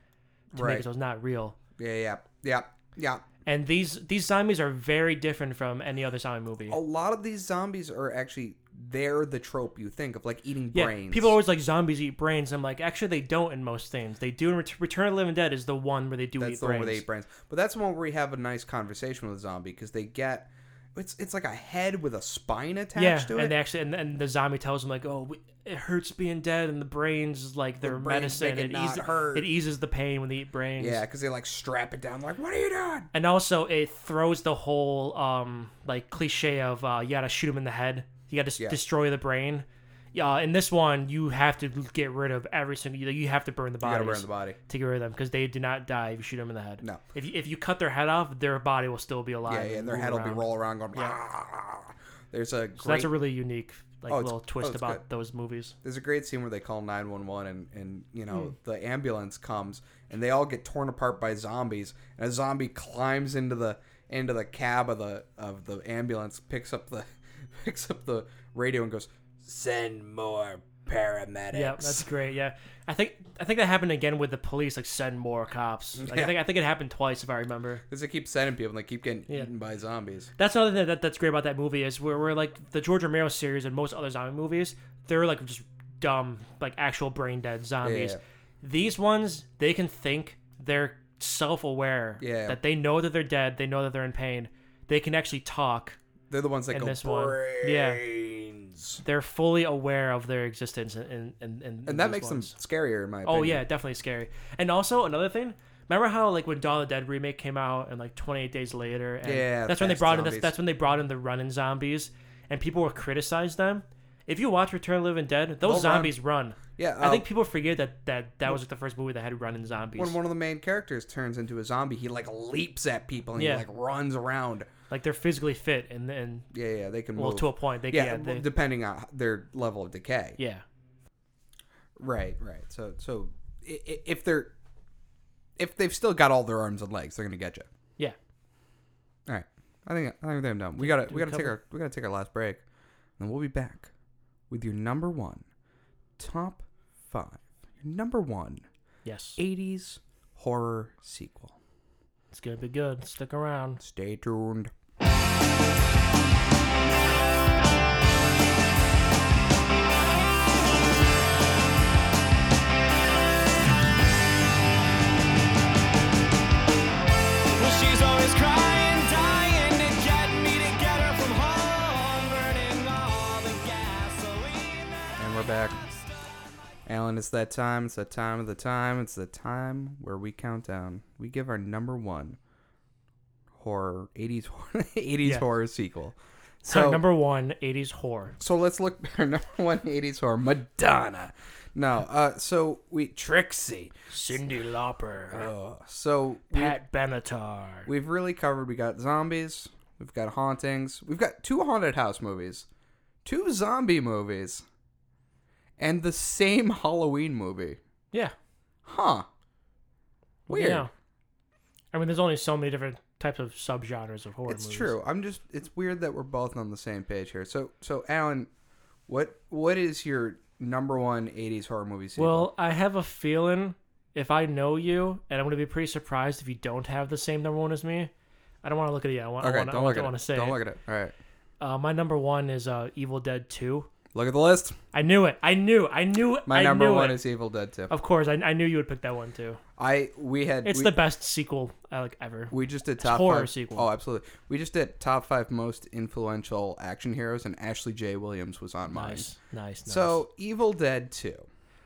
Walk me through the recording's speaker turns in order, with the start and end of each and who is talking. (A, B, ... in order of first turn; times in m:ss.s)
0:00.5-0:00.8 A
0:00.5-0:01.6 B
0:01.8-0:03.2 A
0:03.4-0:06.8 B
0:06.7-0:11.4 A
0:10.7-0:17.0 B
0:16.4-0:23.5 A
0:23.0-0:31.0 B
0:27.8-0:29.5 A
0:30.8-0:33.1 A
0:33.1-0:51.2 B
0:43.8-0:44.6 A
0:49.4-0:53.1 A
0:52.8-0:55.7 B
0:54.1-0:55.0 A
0:55.8-1:12.0 A
1:11.5-1:17.8 B
1:16.0-1:16.4 A
1:17.9-1:20.3 A
1:20.4-1:36.0 B
1:27.8-1:28.2 A
1:32.2-1:32.6 A
1:36.3-1:39.0 A
1:36.7-1:38.0 B
1:39.0-1:42.5 B
1:41.8-1:43.6 A
1:43.2-2:00.2 B
1:49.2-1:50.5 A
1:55.6-1:56.1 A
1:56.7-1:57.2 A
2:00.0-2:04.7 A
2:03.4-2:03.6 B
2:04.9-2:06.5 B
2:06.5-2:10.4 A
2:07.1-2:08.4 B
2:10.4-2:10.6 B
2:12.0-2:14.5 A
2:15.6-2:17.7 A
2:19.3-2:22.6 A
2:20.8-2:21.6 B
2:23.2-2:23.9 A
2:24.5-2:25.4 A
2:26.2-2:28.6 A
2:29.0-2:29.4 B
2:29.4-2:31.6 A
2:32.3-2:33.8 B
2:33.8-2:34.7 A
2:47.6-2:56.3 C
2:55.2-2:55.8 A
2:56.8-3:02.4 A
3:03.5-3:07.0 A
3:06.7-3:08.4 B
3:08.4-3:13.9 A
3:14.1-3:15.5 B
3:15.3-3:16.8 A
3:16.5-3:17.9 B
3:17.9-3:22.6 A
3:23.2-3:24.6 A
3:25.8-3:27.8 A
3:28.8-3:29.3 A
3:30.5-3:30.9 B
3:30.5-3:30.9 A
3:31.9-3:34.9 B
3:34.5-3:38.5 A
3:39.1-3:42.5 A
3:42.2-3:48.1 B
3:48.6-3:50.6 B
3:49.4-3:51.1 A
3:51.6-3:53.9 B
3:54.1-3:54.8 A
3:54.9-3:57.2 B
3:56.4-3:57.9 A
3:57.9-3:59.6 B
3:59.8-4:00.9 A
4:00.6-4:03.9 B
4:02.5-4:09.2 A
4:08.9-4:10.2 B
4:09.8-4:11.4 A